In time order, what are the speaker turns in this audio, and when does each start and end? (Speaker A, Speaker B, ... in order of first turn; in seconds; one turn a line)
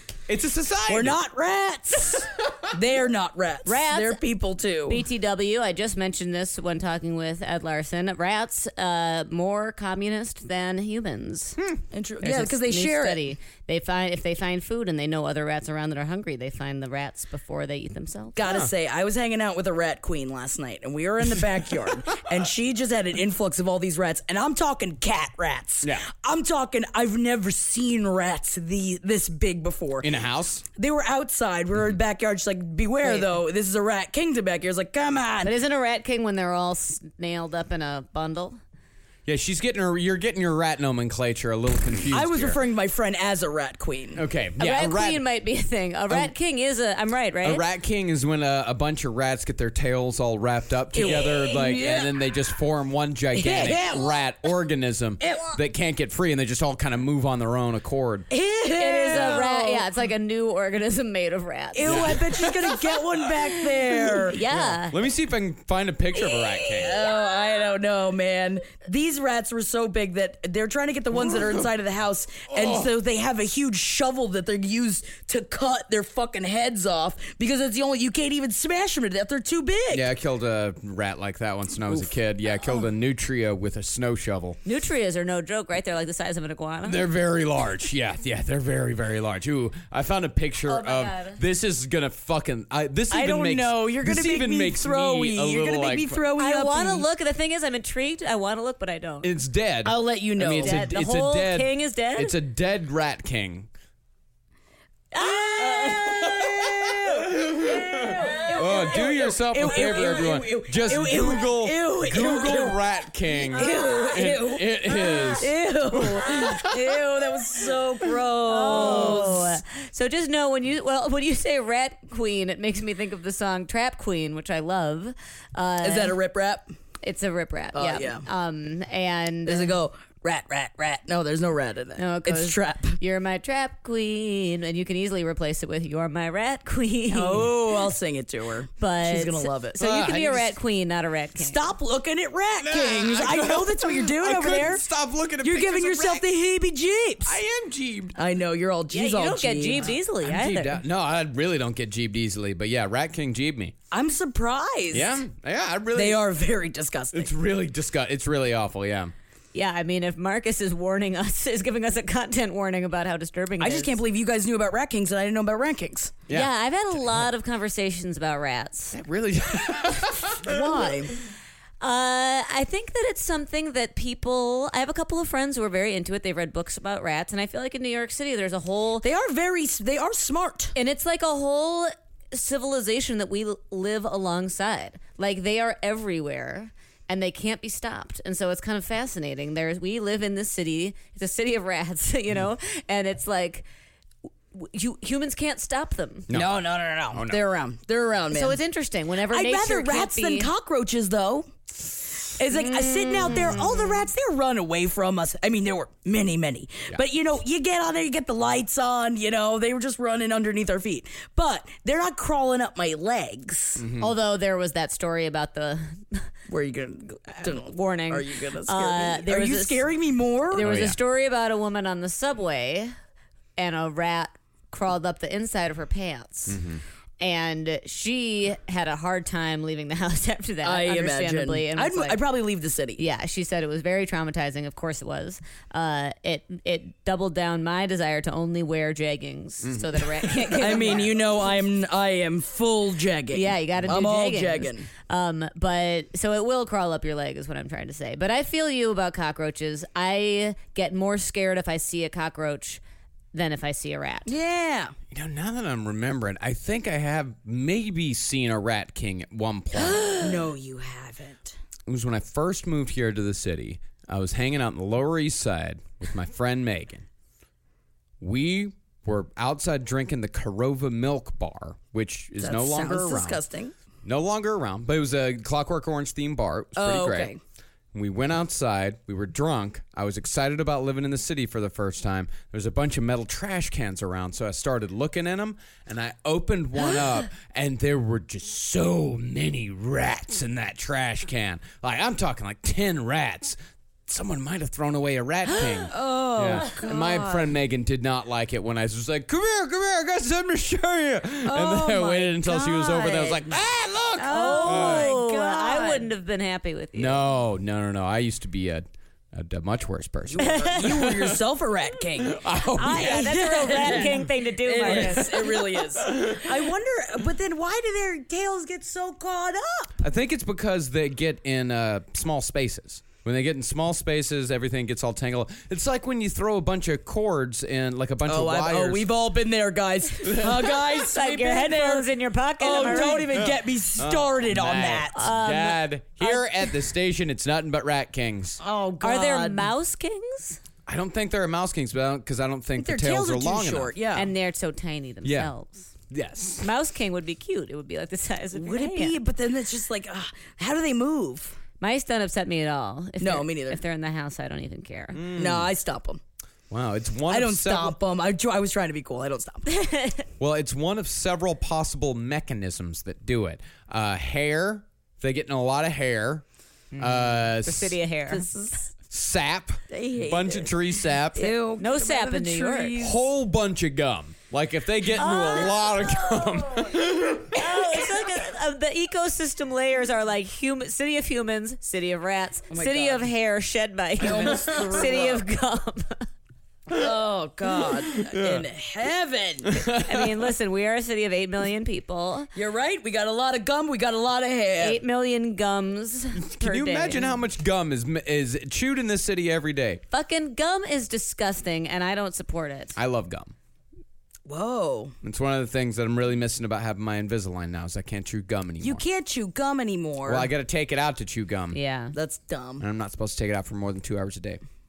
Speaker A: 0.3-1.2
Speaker B: 0.9-5.0
Speaker C: 3.7-4.2
Speaker C: 4.9-11.6
Speaker B: 11.9-13.2
Speaker C: 12.2-18.4
Speaker B: 18.4-30.1
Speaker A: 18.4-18.7
Speaker A: 30.0-30.6
Speaker B: 30.8-35.5
Speaker C: 33.0-33.3
Speaker C: 35.4-38.6
Speaker A: 39.3-42.6
Speaker B: 42.1-44.2
Speaker A: 44.2-45.2
Speaker C: 44.6-47.6
Speaker A: 47.4-58.3
Speaker B: 51.0-52.2
Speaker B: 53.3-54.2
Speaker B: 55.2-55.6
Speaker B: 58.3-59.8
Speaker C: 58.8-62.1
Speaker B: 61.7-64.4
Speaker A: 61.9-62.6
Speaker C: 64.3-65.0
Speaker A: 64.5-67.0
Speaker B: 66.8-80.1
Speaker A: 72.5-72.9
Speaker A: 79.9-84.6
Speaker C: 84.7-87.0
Speaker A: 86.8-96.2
Speaker C: 90.7-91.4
Speaker B: 93.1-97.1
Speaker C: 96.4-99.3
Speaker A: 99.2-103.7
Speaker B: 99.8-100.8
Speaker C: 100.6-102.3
Speaker C: 105.1-106.3
Speaker B: 105.2-112.8
Speaker A: 107.4-116.7
Speaker B: 113.5-119.5
Speaker C: 118.5-126.2
Speaker A: 118.8-119.2
Speaker B: 125.8-126.7
Speaker C: 127.0-129.7
Speaker B: 127.7-128.3
Speaker B: 129.5-133.0
Speaker C: 132.0-137.4
Speaker B: 137.1-139.8
Speaker C: 138.8-141.6
Speaker A: 139.8-140.6
Speaker B: 141.4-144.8
Speaker A: 142.6-146.2
Speaker B: 145.4-147.4
Speaker A: 147.2-148.2
Speaker B: 148.2-149.9
Speaker C: 148.9-150.8
Speaker A: 149.8-153.7
Speaker B: 153.9-155.2
Speaker A: 154.9-156.2
Speaker B: 155.9-157.3
Speaker A: 157.1-159.1
Speaker C: 159.5-164.0
Speaker B: 163.6-166.2
Speaker A: 166.3-167.3
Speaker C: 166.3-169.0
Speaker A: 168.9-170.5
Speaker B: 170.4-171.1
Speaker C: 171.8-179.1
Speaker B: 179.0-180.8
Speaker C: 180.8-193.7
Speaker C: 194.5-196.3
Speaker A: 196.3-196.6
Speaker B: 196.3-198.6
Speaker A: 197.1-197.4
Speaker C: 198.3-200.5
Speaker B: 199.3-213.8
Speaker C: 202.6-203.9
Speaker A: 213.8-214.1
Speaker C: 214.0-216.3
Speaker B: 216.5-220.6
Speaker C: 217.4-219.9
Speaker C: 220.5-222.9
Speaker A: 220.6-221.0
Speaker C: 223.6-226.6
Speaker A: 226.5-226.8
Speaker C: 227.2-232.2
Speaker B: 230.6-233.0
Speaker C: 233.0-241.2
Speaker A: 239.6-240.6
Speaker B: 240.6-244.9
Speaker C: 243.3-252.8
Speaker C: 253.3-254.3
Speaker B: 254.3-254.9
Speaker A: 255.1-260.3
Speaker B: 259.7-261.6
Speaker A: 261.9-267.1
Speaker A: 268.2-273.4
Speaker B: 272.4-273.7
Speaker A: 274.0-277.3
Speaker B: 276.8-277.4
Speaker A: 277.9-305.1
Speaker B: 295.5-297.5
Speaker B: 301.5-303.5
Speaker C: 304.2-307.2
Speaker B: 304.3-306.1
Speaker A: 307.0-311.4
Speaker B: 310.3-320.0
Speaker A: 312.3-314.2
Speaker C: 312.8-315.6
Speaker A: 314.9-315.2
Speaker A: 320.0-329.1
Speaker B: 328.3-332.1
Speaker C: 331.0-333.4
Speaker B: 332.6-335.2
Speaker A: 332.9-338.6
Speaker C: 335.1-336.7
Speaker B: 338.6-339.7
Speaker C: 339.0-340.6
Speaker A: 340.9-343.9
Speaker B: 342.8-344.3
Speaker C: 344.1-345.9
Speaker A: 345.2-345.5
Speaker A: 346.1-346.7
Speaker C: 346.6-349.2
Speaker B: 348.5-351.6
Speaker C: 351.8-355.2
Speaker B: 353.2-353.8
Speaker A: 355.1-355.7
Speaker B: 355.4-356.2
Speaker A: 356.7-357.9
Speaker B: 357.3-359.7
Speaker C: 359.7-360.2
Speaker A: 360.4-366.4
Speaker C: 366.9-368.5
Speaker A: 367.0-368.0
Speaker B: 368.3-368.9
Speaker A: 369.1-371.6
Speaker B: 369.9-373.2
Speaker C: 371.8-372.9
Speaker A: 373.0-377.6
Speaker C: 375.2-376.6
Speaker C: 377.5-386.3
Speaker B: 382.7-383.3
Speaker B: 384.2-385.4
Speaker B: 386.9-389.8
Speaker A: 388.3-388.6
Speaker A: 389.7-390.3
Speaker C: 390.0-392.5
Speaker B: 392.6-395.0
Speaker C: 394.8-397.4
Speaker A: 396.4-400.0
Speaker C: 400.1-403.0
Speaker A: 403.0-403.5
Speaker B: 404.5-405.1
Speaker A: 405.2-409.0
Speaker B: 408.8-410.5
Speaker A: 410.3-411.8
Speaker C: 411.7-412.1
Speaker B: 412.1-412.8
Speaker A: 412.8-414.6